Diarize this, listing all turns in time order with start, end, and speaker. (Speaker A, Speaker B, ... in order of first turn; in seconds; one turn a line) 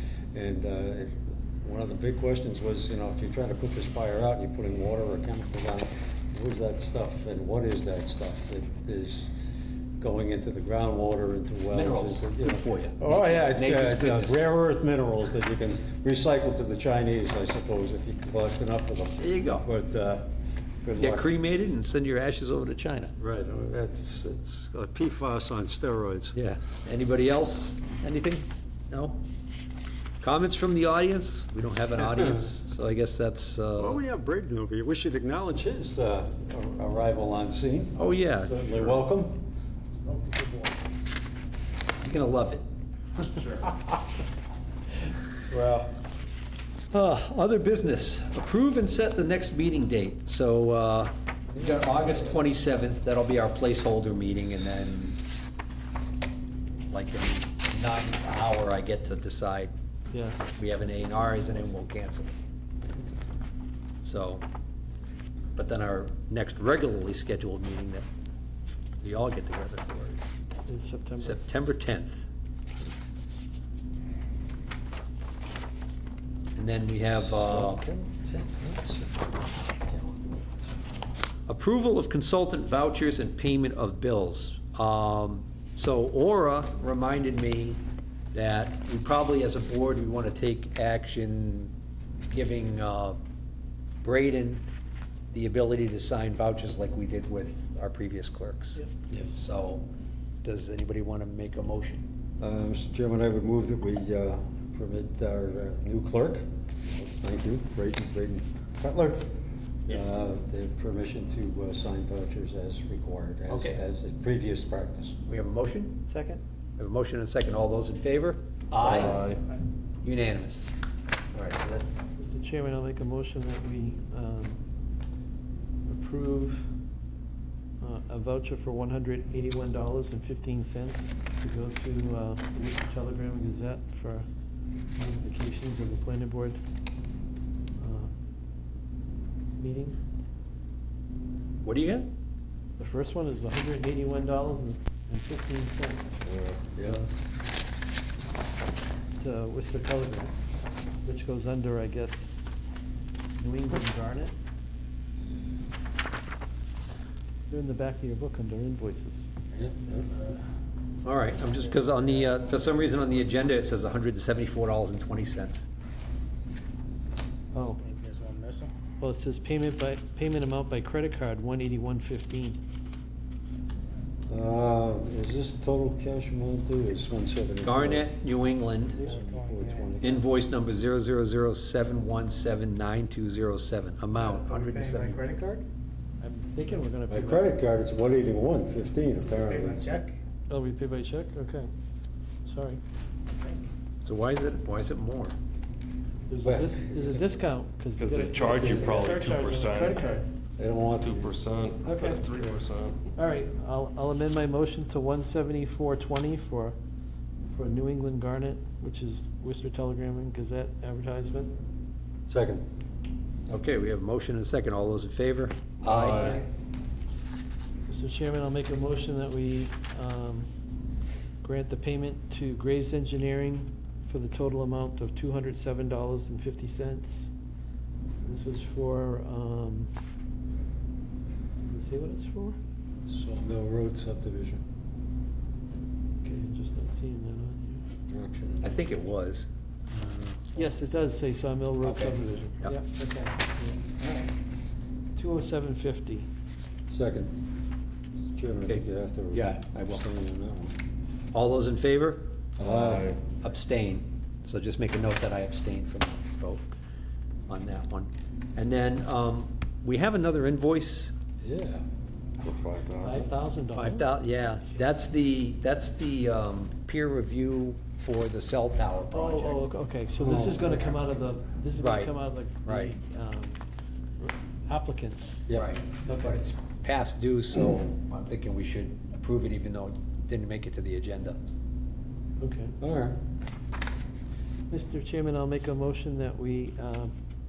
Speaker A: 0.3-9.3
Speaker A: 10.0-20.3
Speaker B: 11.7-14.5
Speaker B: 19.1-19.7
Speaker A: 20.8-21.2
Speaker B: 21.0-23.1
Speaker A: 23.2-26.4
Speaker B: 26.3-29.2
Speaker B: 30.2-34.0
Speaker A: 33.8-39.4
Speaker B: 38.0-38.7
Speaker C: 40.2-40.5
Speaker B: 42.0-42.6
Speaker A: 45.5-45.9
Speaker B: 46.9-55.2
Speaker A: 51.5-52.3
Speaker B: 56.9-59.7
Speaker D: 60.1-60.4
Speaker B: 60.5-62.3
Speaker B: 64.0-64.4
Speaker B: 65.5-68.0
Speaker B: 69.0-70.3
Speaker D: 70.7-71.4
Speaker B: 71.2-72.3
Speaker B: 76.5-77.8
Speaker A: 77.2-80.2
Speaker B: 81.5-87.8
Speaker B: 88.3-91.7
Speaker B: 92.3-93.2
Speaker B: 94.0-94.7
Speaker B: 95.3-99.8
Speaker B: 100.4-102.0
Speaker A: 102.4-109.3
Speaker A: 109.8-115.2
Speaker B: 113.5-113.8
Speaker B: 115.2-116.1
Speaker D: 116.1-116.4
Speaker B: 116.8-119.2
Speaker E: 118.8-119.4
Speaker B: 120.0-120.7
Speaker B: 121.3-121.8
Speaker D: 122.2-124.6
Speaker D: 125.9-126.7
Speaker D: 127.8-134.3
Speaker D: 134.9-136.6
Speaker D: 137.8-138.1
Speaker D: 139.6-140.0
Speaker B: 141.6-142.1
Speaker D: 142.8-146.2
Speaker A: 146.2-147.0
Speaker D: 146.8-147.1
Speaker D: 149.2-150.3
Speaker D: 151.0-152.6
Speaker D: 153.4-154.3
Speaker D: 157.5-159.3
Speaker A: 159.5-160.1
Speaker B: 161.0-165.7
Speaker D: 167.5-167.8
Speaker C: 167.8-168.7
Speaker D: 169.0-172.6
Speaker A: 174.3-178.1
Speaker B: 177.6-179.0
Speaker A: 179.0-180.2
Speaker C: 179.0-179.9
Speaker B: 180.0-185.2
Speaker C: 184.3-185.6
Speaker D: 186.2-187.5
Speaker A: 187.1-190.0
Speaker C: 189.5-190.0
Speaker D: 190.5-191.7
Speaker D: 192.4-192.8
Speaker B: 194.0-195.3
Speaker D: 196.3-200.3
Speaker A: 196.4-197.5
Speaker E: 198.0-200.2
Speaker A: 198.4-199.2
Speaker A: 200.6-201.3
Speaker E: 201.0-203.0
Speaker D: 201.8-202.3
Speaker D: 203.1-206.8
Speaker D: 207.5-211.5
Speaker A: 212.3-212.6
Speaker B: 213.5-216.4
Speaker E: 215.9-216.4
Speaker D: 216.0-216.3
Speaker D: 217.9-220.5
Speaker D: 221.4-227.3
Speaker D: 228.2-229.9
Speaker D: 231.6-232.6
Speaker A: 233.1-234.6
Speaker D: 236.2-237.8
Speaker A: 238.1-238.7
Speaker B: 238.6-240.9
Speaker D: 240.5-244.2
Speaker B: 241.8-242.8
Speaker D: 245.2-246.3
Speaker A: 246.9-247.4
Speaker A: 248.3-250.7
Speaker B: 248.6-250.0
Speaker B: 251.3-252.3
Speaker A: 252.6-253.1
Speaker E: 252.6-253.2
Speaker B: 253.4-256.7
Speaker B: 257.5-261.1
Speaker A: 261.4-261.8
Speaker E: 262.4-263.3
Speaker D: 263.0-264.1
Speaker B: 263.7-269.6
Speaker D: 269.1-273.6
Speaker A: 270.2-270.8
Speaker B: 271.8-272.1
Speaker B: 272.6-272.9
Speaker D: 274.2-275.5
Speaker B: 275.5-281.4
Speaker D: 276.0-276.4
Speaker D: 282.4-282.7
Speaker A: 282.8-283.2
Speaker D: 284.7-287.1